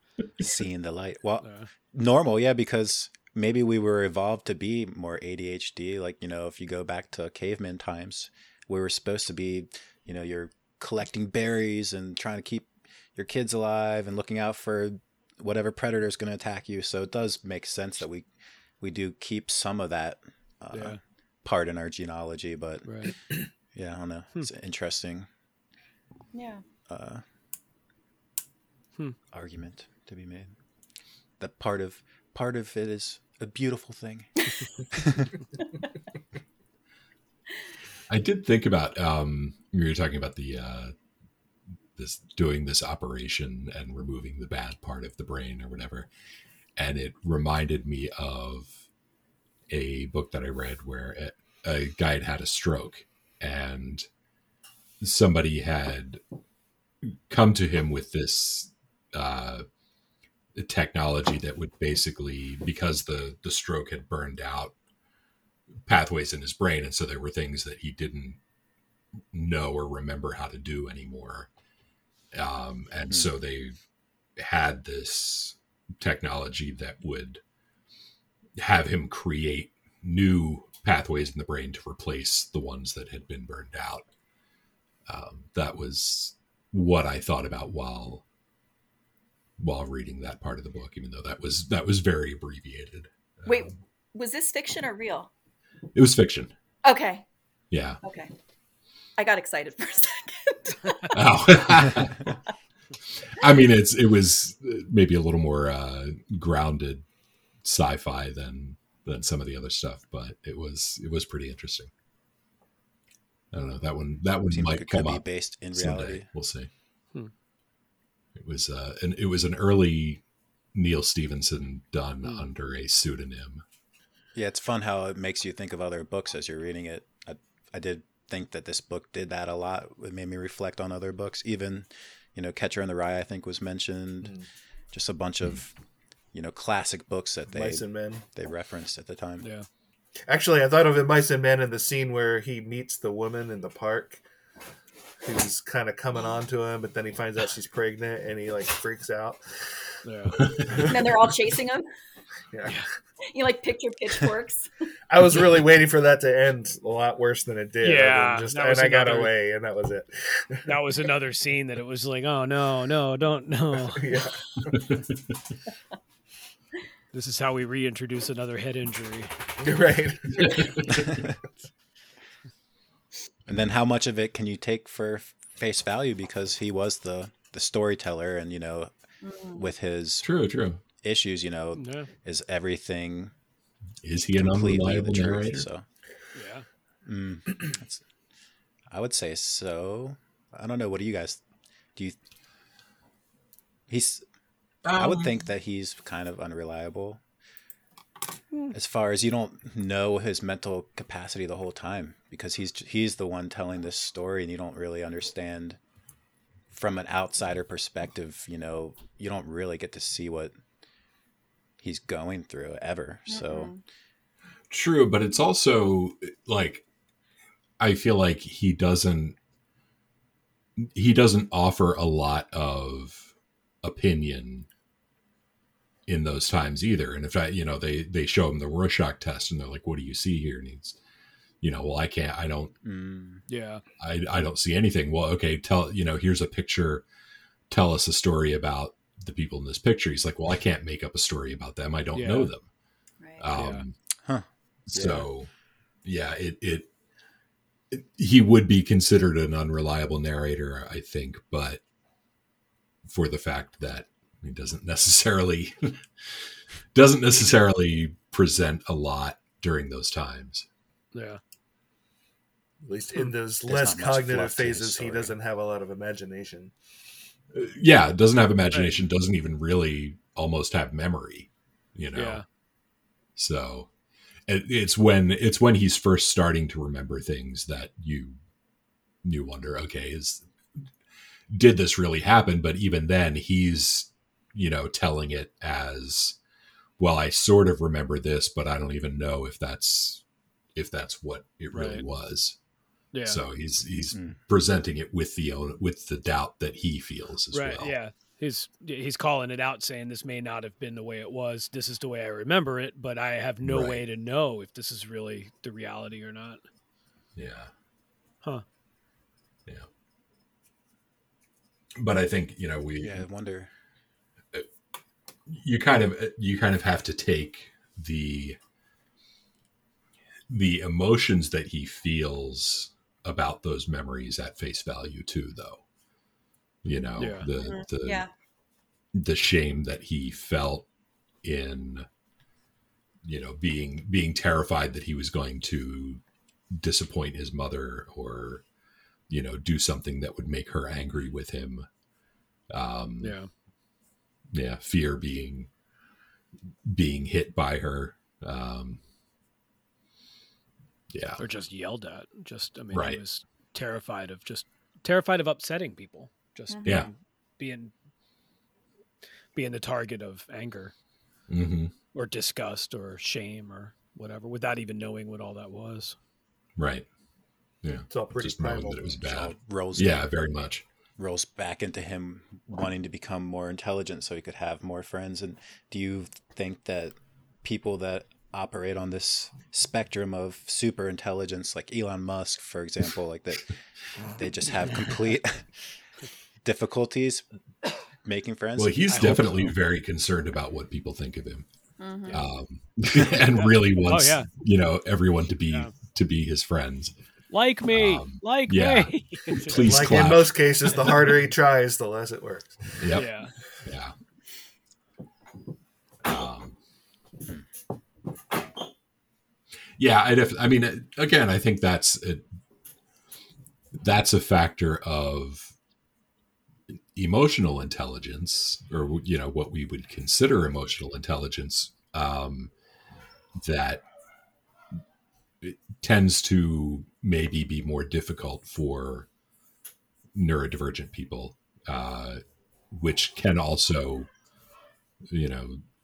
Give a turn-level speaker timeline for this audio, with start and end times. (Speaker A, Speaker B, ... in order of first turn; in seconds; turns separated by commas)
Speaker A: 0.4-18.3, Speaker B: 1.4-1.7, Speaker A: 18.8-23.2, Speaker B: 20.7-21.0, Speaker B: 22.9-23.1, Speaker A: 23.7-25.3, Speaker C: 26.3-26.6, Speaker A: 26.9-27.2, Speaker A: 29.3-30.6, Speaker A: 31.4-34.3, Speaker A: 34.9-35.3, Speaker D: 38.1-40.9, Speaker D: 42.0-46.1, Speaker D: 46.8-48.8, Speaker D: 49.7-54.1, Speaker D: 55.0-56.2, Speaker D: 57.0-59.6, Speaker D: 60.5-64.8, Speaker D: 65.8-68.4, Speaker D: 69.3-71.5, Speaker D: 72.3-73.8, Speaker D: 74.4-77.4, Speaker D: 78.6-84.1, Speaker D: 85.1-88.2, Speaker D: 89.6-93.7, Speaker C: 93.5-95.3, Speaker D: 95.9-96.5, Speaker C: 96.8-97.2, Speaker D: 97.7-98.0, Speaker C: 98.0-98.3, Speaker C: 99.2-101.1, Speaker D: 101.1-102.4, Speaker D: 103.3-107.0, Speaker D: 107.6-111.9, Speaker D: 113.5-116.7, Speaker A: 114.5-116.3, Speaker D: 118.4-120.2, Speaker D: 120.7-123.6, Speaker B: 122.2-122.5, Speaker A: 124.3-134.3, Speaker E: 134.2-134.5, Speaker A: 134.9-135.7, Speaker A: 136.3-139.5, Speaker E: 137.5-138.2, Speaker B: 139.4-139.7, Speaker E: 140.3-144.2, Speaker E: 145.2-149.4, Speaker B: 150.1-150.4, Speaker D: 150.4-150.9, Speaker E: 150.7-151.0, Speaker C: 150.9-151.9, Speaker E: 152.5-152.8, Speaker C: 153.3-154.7, Speaker E: 155.1-160.7, Speaker B: 157.8-159.3, Speaker B: 160.7-164.2, Speaker E: 163.9-164.8, Speaker D: 164.7-165.4, Speaker B: 167.1-169.3, Speaker E: 169.6-171.2, Speaker D: 170.3-170.9, Speaker A: 173.5-178.9, Speaker C: 179.2-179.6, Speaker A: 179.5-180.3, Speaker D: 180.2-180.8, Speaker A: 181.0-183.3, Speaker B: 181.8-182.1, Speaker D: 184.0-185.7, Speaker A: 184.4-185.9, Speaker B: 186.3-186.7, Speaker A: 187.1-188.0, Speaker A: 188.9-191.4, Speaker A: 193.9-194.2, Speaker D: 194.8-195.4, Speaker A: 194.9-197.2, Speaker A: 198.7-205.8, Speaker A: 206.7-210.6, Speaker A: 211.8-213.7, Speaker C: 213.3-213.8, Speaker D: 214.7-216.8, Speaker D: 217.8-219.4, Speaker D: 220.8-223.3, Speaker D: 223.8-224.7, Speaker D: 226.1-231.0, Speaker D: 231.6-232.7, Speaker A: 232.8-233.4, Speaker B: 233.5-233.8, Speaker D: 234.0-237.1, Speaker D: 237.7-242.7, Speaker B: 242.2-242.5, Speaker C: 243.2-243.5, Speaker D: 243.4-243.9, Speaker B: 243.6-243.8, Speaker D: 244.9-245.5, Speaker D: 246.0-246.9, Speaker D: 247.9-251.8, Speaker D: 253.1-260.7, Speaker B: 261.1-261.4, Speaker E: 262.8-266.7, Speaker A: 263.7-265.3, Speaker D: 267.5-272.4, Speaker B: 272.1-272.4, Speaker D: 273.4-273.9, Speaker D: 274.5-278.4, Speaker D: 279.2-280.5, Speaker D: 281.5-286.4, Speaker D: 287.0-290.2, Speaker D: 290.8-292.6, Speaker B: 291.7-292.1, Speaker B: 293.1-293.4, Speaker D: 293.2-298.0, Speaker A: 294.1-294.4, Speaker B: 297.5-306.6, Speaker D: 303.6-304.0, Speaker D: 307.4-307.7, Speaker D: 312.0-313.3, Speaker A: 313.0-313.7, Speaker D: 315.5-318.6, Speaker D: 320.5-325.8, Speaker D: 326.8-328.2, Speaker B: 327.2-327.5, Speaker C: 327.6-328.3, Speaker D: 329.1-330.9, Speaker D: 331.4-332.1, Speaker D: 333.2-338.6, Speaker D: 339.3-341.9, Speaker D: 342.7-343.4, Speaker B: 343.2-343.5, Speaker D: 344.5-345.7, Speaker D: 346.9-349.0, Speaker D: 351.1-351.4, Speaker B: 351.4-357.9, Speaker D: 352.9-353.2, Speaker C: 356.7-356.9, Speaker D: 356.9-357.1, Speaker B: 359.6-360.9, Speaker D: 361.5-361.9, Speaker B: 362.1-366.2, Speaker D: 366.8-367.1, Speaker D: 367.8-370.9, Speaker E: 368.1-369.3, Speaker A: 369.2-370.2, Speaker A: 371.2-383.8, Speaker A: 384.4-385.7, Speaker A: 386.6-387.4, Speaker A: 388.2-389.1, Speaker D: 388.8-391.7, Speaker B: 389.1-389.7, Speaker C: 392.0-392.4, Speaker D: 392.3-397.1, Speaker B: 393.2-394.5, Speaker B: 397.5-399.9, Speaker D: 397.9-401.0, Speaker E: 399.7-402.9, Speaker D: 403.0-403.3, Speaker B: 403.1-403.5, Speaker D: 403.9-404.1, Speaker D: 406.2-406.8, Speaker D: 410.0-412.5, Speaker D: 413.9-415.7, Speaker D: 417.1-422.7, Speaker D: 423.6-424.0, Speaker D: 425.6-429.3, Speaker D: 430.3-434.3, Speaker D: 435.3-435.8